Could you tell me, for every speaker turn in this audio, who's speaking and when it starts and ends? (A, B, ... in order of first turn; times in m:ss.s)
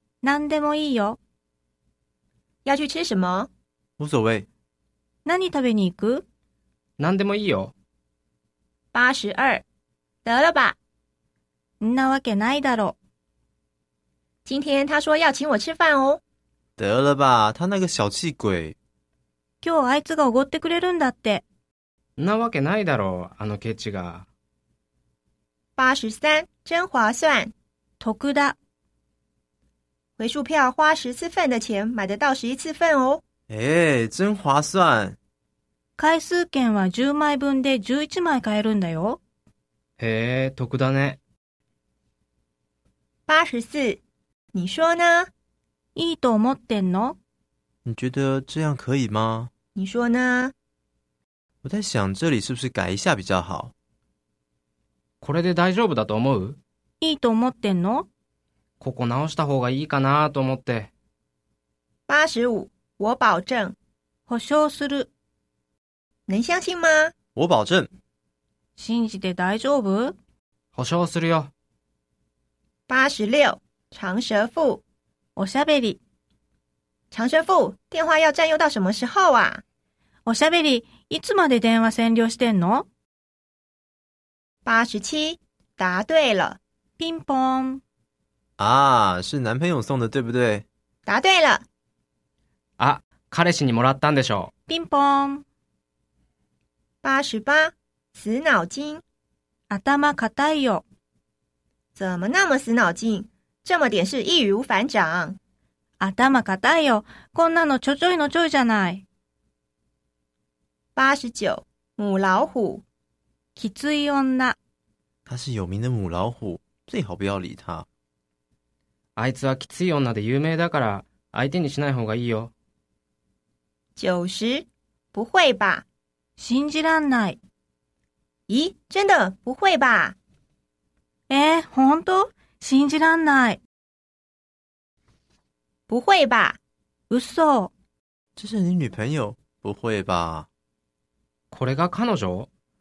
0:00.2-0:01.2 A
0:02.6-0:03.5 B
0:04.0-0:04.5 C
0:05.2-0:06.2 A
0:07.0-0:07.7 D
0:08.9-0:09.6 B
0:10.2-0:10.8 B
0:11.8-0:13.0 A
0:14.4-0:16.2 B
0:16.8-0:18.8 C
0:19.6-0:21.4 A
0:22.2-0:24.2 D
0:25.8-0:27.5 B
0:28.0-0:28.6 A
0:30.2-0:33.2 B
0:33.5-0:35.2 C
0:36.0-0:39.2 A
0:40.0-0:41.2 D
0:43.3-0:44.0 B
0:44.5-0:45.3 B
0:45.9-0:47.2 A
0:47.8-0:49.5 C
0:49.8-0:50.5 B
0:51.6-0:53.7 C
0:55.2-0:56.6 D
0:57.0-0:58.1 A
0:58.8-1:00.9 D
1:02.1-1:03.7 B
1:04.3-1:05.1 A
1:06.3-1:07.1 B
1:07.4-1:07.9 C
1:08.8-1:10.2 A
1:10.7-1:11.5 D
1:12.9-1:14.8 B
1:15.4-1:16.0 A
1:17.1-1:19.6 B
1:20.2-1:22.8 A
1:24.6-1:26.6 B
1:27.0-1:27.8 A
1:28.6-1:30.6 C
1:31.0-1:31.6 B
1:32.8-1:34.5 D
1:34.7-1:35.4 A
1:37.0-1:39.0 B
1:39.7-1:40.8 A
1:42.0-1:45.4 B
1:46.0-1:49.0 A
1:51.0-1:52.8 B
1:53.6-1:54.6 A
1:55.2-1:57.8 C
1:59.2-2:02.5 D
2:04.0-2:05.8 B
2:06.4-2:07.4 A
2:08.5-2:10.2 B
2:11.3-2:13.6 A
2:15.9-2:16.6 B
2:17.1-2:17.7 A
2:18.4-2:20.5 C
2:21.5-2:22.5 D